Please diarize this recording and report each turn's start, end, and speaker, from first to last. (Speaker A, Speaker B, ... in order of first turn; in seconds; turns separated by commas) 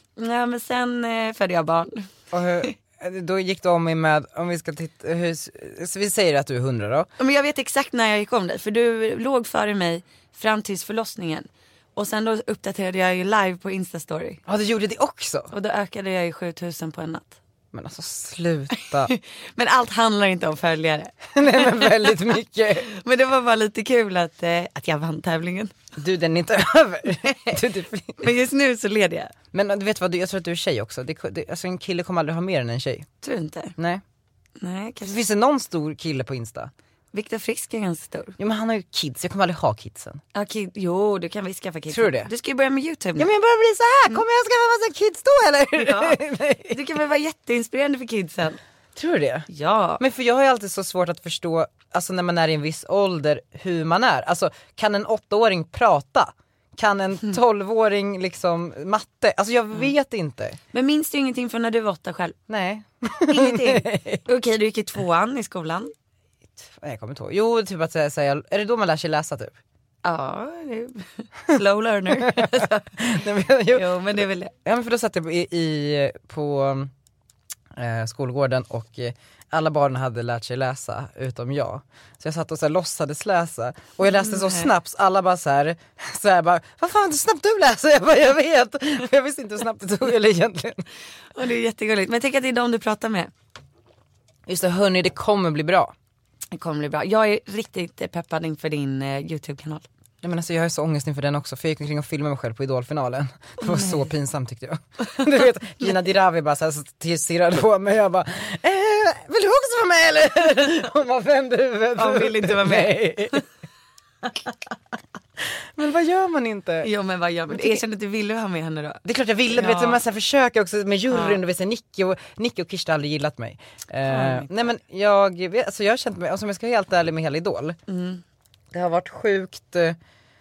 Speaker A: 0.2-2.1, Speaker B: 2.3-7.1, Speaker A: 7.2-14.4, Speaker B: 14.5-15.5, Speaker A: 15.5-17.4, Speaker B: 17.7-19.1, Speaker A: 19.0-22.1, Speaker B: 21.4-22.9, Speaker A: 22.9-25.7, Speaker B: 26.0-28.3, Speaker A: 27.2-27.6, Speaker A: 28.2-29.3, Speaker B: 29.5-33.1, Speaker A: 33.2-33.8, Speaker B: 33.8-34.0, Speaker A: 34.6-35.2, Speaker B: 35.0-36.7, Speaker A: 37.1-38.4, Speaker B: 38.4-40.2, Speaker A: 40.3-43.3, Speaker B: 41.9-42.3, Speaker B: 43.2-46.8, Speaker A: 45.8-48.6, Speaker B: 49.0-49.5, Speaker A: 49.5-50.0, Speaker B: 50.0-60.6, Speaker A: 60.7-62.4, Speaker B: 62.5-64.2, Speaker A: 63.3-65.9, Speaker B: 66.7-69.6, Speaker A: 70.0-73.1, Speaker B: 72.2-73.9, Speaker A: 73.7-74.5, Speaker B: 74.7-76.9, Speaker B: 77.8-90.8, Speaker A: 84.1-84.7, Speaker A: 91.3-93.3, Speaker B: 94.5-95.9, Speaker A: 96.5-99.8, Speaker B: 100.2-113.4, Speaker A: 103.6-104.1, Speaker A: 112.0-113.4, Speaker B: 115.8-116.9, Speaker A: 116.8-120.0, Speaker B: 117.5-117.8, Speaker B: 119.0-127.8, Speaker A: 121.1-121.4, Speaker A: 124.1-124.5, Speaker A: 127.9-128.2, Speaker B: 128.7-130.0